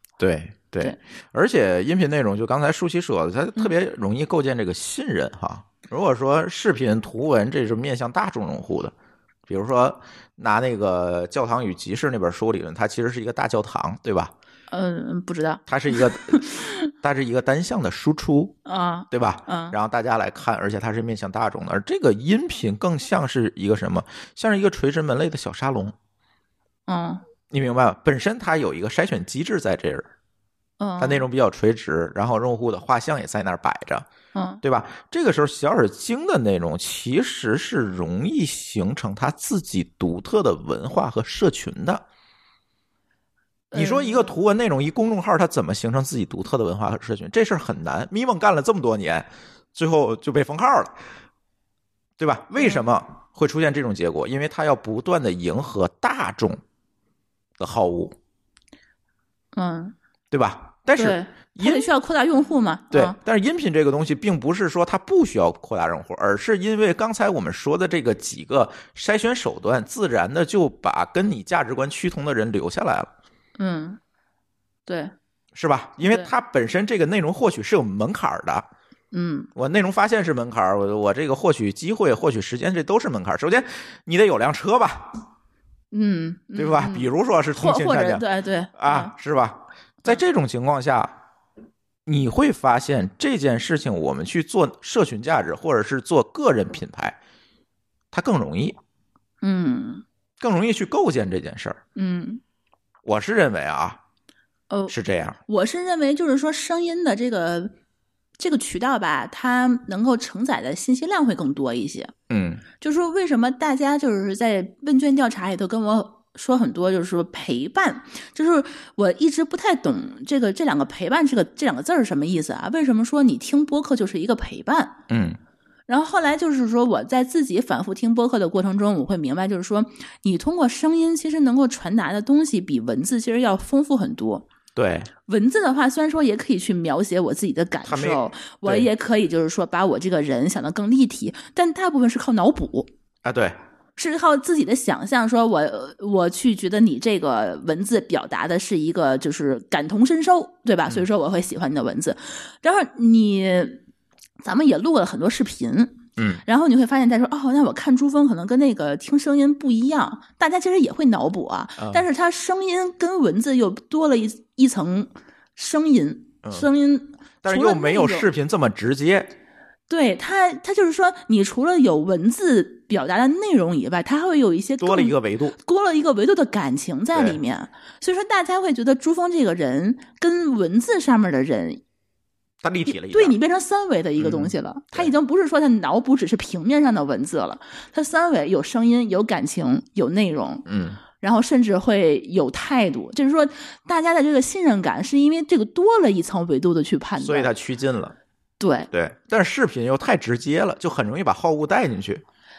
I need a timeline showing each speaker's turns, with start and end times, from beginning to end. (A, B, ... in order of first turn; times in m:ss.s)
0:00.2-0:08.9 A
0:09.5-0:14.3 A
0:14.7-0:16.8 B
0:15.7-0:18.6 A
0:18.7-0:19.8 B
0:19.1-0:26.0 A
0:26.9-0:27.2 B
0:27.5-0:30.1 A
0:30.8-0:31.2 B
0:31.0-0:34.1 A
0:34.3-0:34.6 B
0:34.6-0:42.0 A
0:43.7-0:44.3 B
0:43.7-0:50.9 A
0:52.2-0:56.6 A
0:52.6-0:52.8 B
0:57.6-0:58.2 A
0:59.6-1:00.0 B
1:00.3-1:01.9 A
1:01.0-1:03.2 B
1:02.9-1:13.1 A
1:13.6-1:14.0 B
1:14.9-1:15.1 B
1:15.6-1:18.7 A
1:16.0-1:16.3 B
1:19.1-1:19.5 B
1:19.6-1:25.1 A
1:25.9-1:29.1 B
1:26.6-1:28.2 A
1:28.8-1:31.1 A
1:32.1-1:37.2 A
1:38.1-1:38.8 A
1:39.4-1:40.0 B
1:40.4-1:41.8 A
1:42.0-1:42.4 B
1:43.0-1:44.0 A
1:44.7-1:45.0 B
1:44.9-1:45.4 A
1:45.5-1:47.7 B
1:48.4-1:52.1 B
1:52.3-1:52.6 A
1:52.8-2:05.0 B
2:05.1-2:05.4 A
2:05.9-2:14.4 B
2:14.8-2:15.1 A
2:15.3-2:22.9 B
2:17.8-2:18.9 A
2:23.2-2:23.6 A
2:24.0-2:33.8 B
2:34.4-2:48.3 B
2:36.2-2:36.4 A
2:41.8-2:42.0 A
2:47.4-2:49.3 A
2:49.9-3:01.8 B
2:54.8-2:55.6 A
2:57.1-2:57.4 A
3:02.6-3:03.4 A
3:02.9-3:10.6 B
3:04.2-3:05.1 A
3:10.7-3:11.0 A
3:11.2-3:17.5 B
3:17.2-3:18.2 A
3:18.6-3:18.9 B
3:18.9-3:22.2 A